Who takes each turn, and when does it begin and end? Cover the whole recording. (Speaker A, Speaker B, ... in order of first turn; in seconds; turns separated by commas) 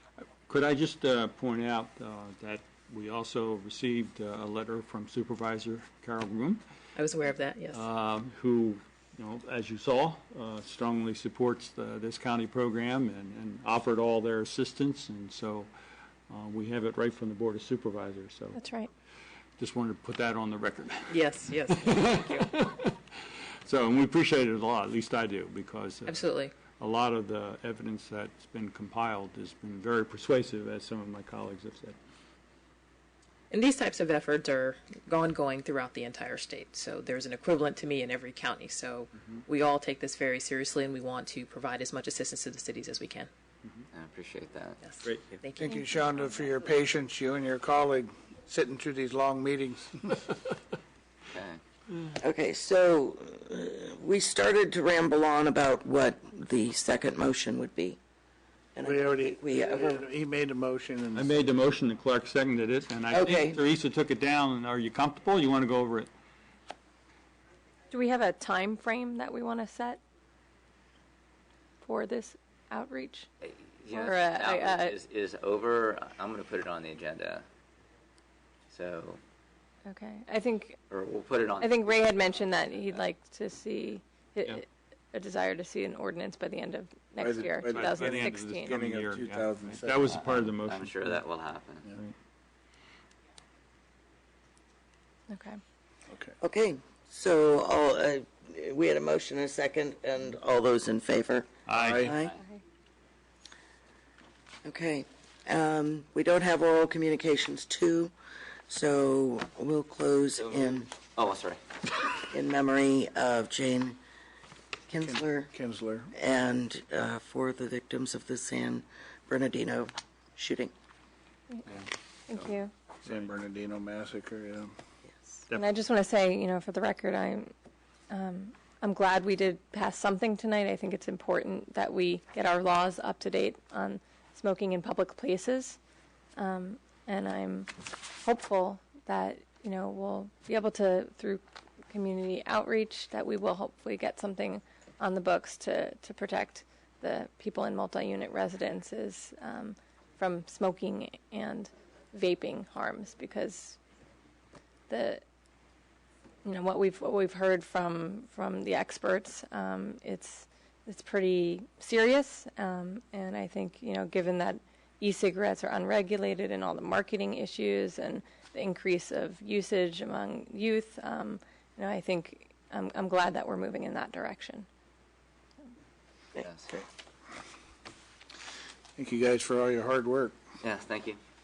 Speaker A: 0.5-6.6, Speaker B: 7.0-7.8, Speaker A: 7.7-15.7, Speaker A: 16.3-18.6, Speaker C: 18.5-18.9, Speaker A: 19.6-23.0, Speaker B: 21.1-22.5, Speaker A: 23.6-31.9, Speaker B: 26.1-26.5, Speaker B: 33.5-43.3, Speaker D: 43.9-44.8, Speaker B: 44.8-46.6, Speaker E: 45.5-50.2, Speaker D: 51.3-51.6, Speaker F: 52.2-58.0, Speaker F: 58.7-60.0, Speaker E: 58.8-61.4, Speaker A: 61.1-66.1, Speaker F: 63.1-63.6, Speaker C: 67.9-70.0, Speaker C: 71.8-73.3, Speaker D: 73.4-77.5, Speaker C: 73.9-75.0, Speaker D: 78.7-79.2, Speaker C: 79.8-80.8, Speaker D: 80.9-82.8, Speaker C: 81.6-88.8, Speaker E: 87.2-90.1, Speaker A: 87.7-91.2, Speaker D: 90.1-91.9, Speaker C: 95.3-95.6, Speaker E: 96.1-96.3, Speaker F: 96.4-102.3, Speaker A: 101.7-102.1, Speaker E: 101.7-102.2, Speaker D: 102.1-102.4, Speaker F: 104.6-108.1, Speaker F: 108.7-110.9, Speaker D: 110.4-111.6, Speaker F: 112.3-114.0, Speaker F: 114.9-115.5, Speaker E: 115.0-116.1, Speaker F: 116.1-120.7, Speaker C: 121.5-122.7, Speaker D: 121.7-122.5, Speaker E: 123.0-124.7, Speaker C: 125.5-127.5, Speaker C: 128.1-135.8, Speaker C: 136.3-153.8, Speaker C: 154.9-155.2, Speaker C: 156.4-174.7, Speaker D: 176.4-176.8, Speaker E: 179.0-180.4, Speaker D: 180.6-181.2